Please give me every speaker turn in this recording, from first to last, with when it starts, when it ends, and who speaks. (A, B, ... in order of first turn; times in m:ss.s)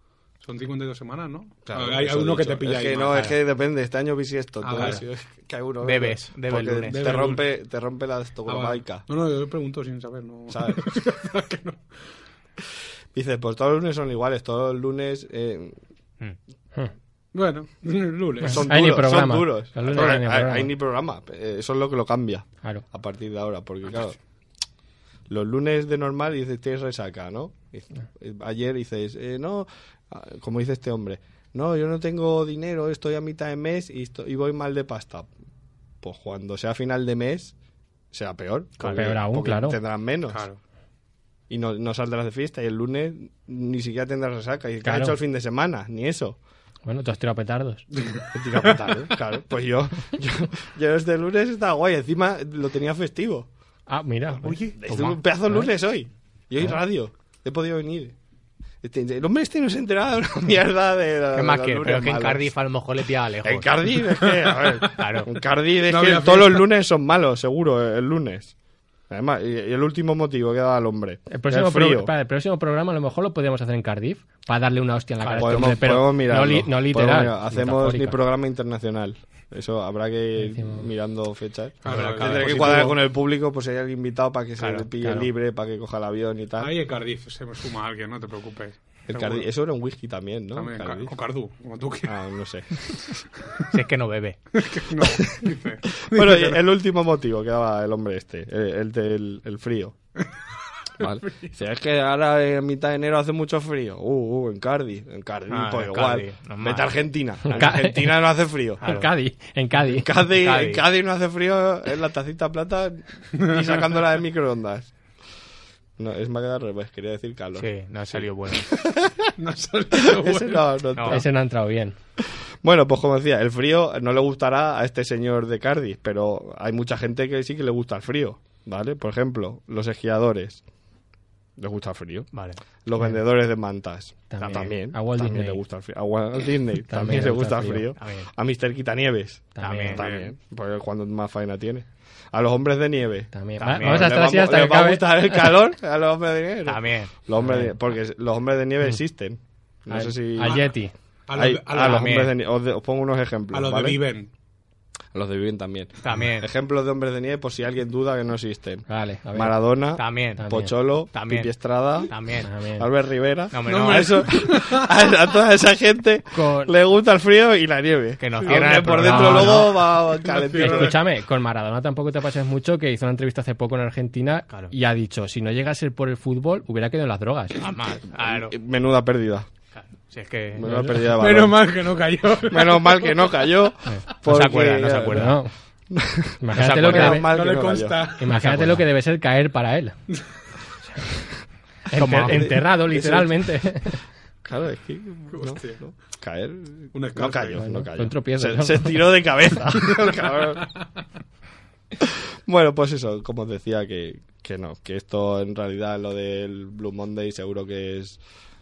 0:00.4-0:03.3 A
0:01.6-0:09.1 B
0:04.6-0:05.0 A
0:05.8-0:07.0 C
0:06.9-0:07.5 A
0:08.5-0:11.9 A
0:10.5-0:11.0 B
0:13.1-0:15.8 B
0:17.3-0:18.7 A
0:18.5-0:24.2 B
0:18.5-0:20.7 D
0:25.3-0:35.3 B
0:36.0-0:37.6 B
0:38.1-0:40.4 B
0:38.8-0:39.1 C
0:38.9-0:39.8 D
0:40.3-0:40.6 A
0:41.5-0:46.4 B
0:44.8-0:45.2 D
0:46.9-0:47.9 D
0:48.0-0:49.0 A
0:48.3-0:53.5 B
0:53.9-0:54.6 D
0:54.5-0:54.7 A
0:54.7-0:58.1 B
0:54.9-0:55.7 C
0:58.8-1:02.5 B
1:01.4-1:03.7 C
1:03.4-1:08.5 B
1:04.1-1:04.8 A
1:04.9-1:05.3 C
1:05.9-1:06.7 A
1:09.1-1:12.1 B
1:11.3-1:18.2 D
1:15.2-1:15.9 C
1:15.4-1:26.7 B
1:20.4-1:20.9 D
1:21.8-1:23.0 A
1:21.8-1:22.9 C
1:24.6-1:24.9 C
1:25.0-1:25.3 D
1:26.6-1:29.5 A
1:29.1-1:31.1 B
1:30.5-1:32.2 A
1:32.1-1:32.7 B
1:33.7-1:34.4 C
1:34.6-1:36.6 A
1:35.1-1:40.0 B
1:41.0-1:41.6 A
1:41.0-1:48.8 B
1:45.5-1:47.7 C
1:47.5-1:48.2 D
1:48.8-1:50.1 D
1:48.8-1:49.1 C
1:49.9-1:54.9 B
1:50.3-1:50.8 C
1:53.4-1:54.0 A
1:56.0-1:59.3 B
1:57.6-1:58.7 C
1:59.4-2:00.6 A
1:59.9-2:01.2 B
2:01.0-2:01.2 C
2:01.1-2:02.0 D
2:02.6-2:10.6 B
2:11.6-2:30.6 B
2:12.3-2:12.6 C
2:14.3-2:15.6 D
2:14.4-2:14.7 C
2:16.9-2:17.9 D
2:18.0-2:18.3 C
2:19.6-2:20.0 D
2:19.6-2:20.0 C
2:20.0-2:20.3 A
2:23.3-2:25.6 D
2:23.6-2:24.2 C
2:26.7-2:27.3 C
2:27.4-2:27.7 D
2:29.9-2:30.9 D
2:30.4-2:30.7 A
2:31.3-2:32.2 A
2:31.4-2:34.0 B
2:31.8-2:32.3 C
2:33.5-2:34.3 A
2:35.1-2:42.2 B
2:36.0-2:36.5 C
2:38.9-2:39.7 D
2:40.0-2:40.5 C
2:40.4-2:40.7 D
2:41.1-2:41.5 C
2:42.1-2:42.5 C
2:42.4-2:42.9 D
2:42.8-2:50.9 B
2:43.5-2:44.3 C
2:43.7-2:44.9 A
2:46.3-2:46.7 D
2:48.2-2:49.8 C
2:48.4-2:49.4 A
2:49.0-2:49.7 D
2:50.2-2:51.0 A
2:50.5-2:57.6 D
2:57.6-2:58.5 C
2:58.1-2:59.5 B
2:59.7-3:00.9 C
3:00.6-3:01.7 B
3:00.7-3:00.9 D
3:01.1-3:03.5 A
3:02.5-3:05.3 B
3:04.0-3:05.4 C
3:05.1-3:05.5 D
3:05.9-3:08.1 B
3:06.4-3:07.3 D
3:06.6-3:07.2 C
3:06.9-3:08.2 A
3:08.2-3:10.0 D
3:08.4-3:08.8 C
3:11.9-3:14.0 D
3:12.0-3:12.6 C
3:12.3-3:13.5 B
3:14.4-3:20.7 B
3:15.3-3:15.9 A
3:16.9-3:17.6 A
3:17.6-3:19.1 D
3:22.0-3:28.2 B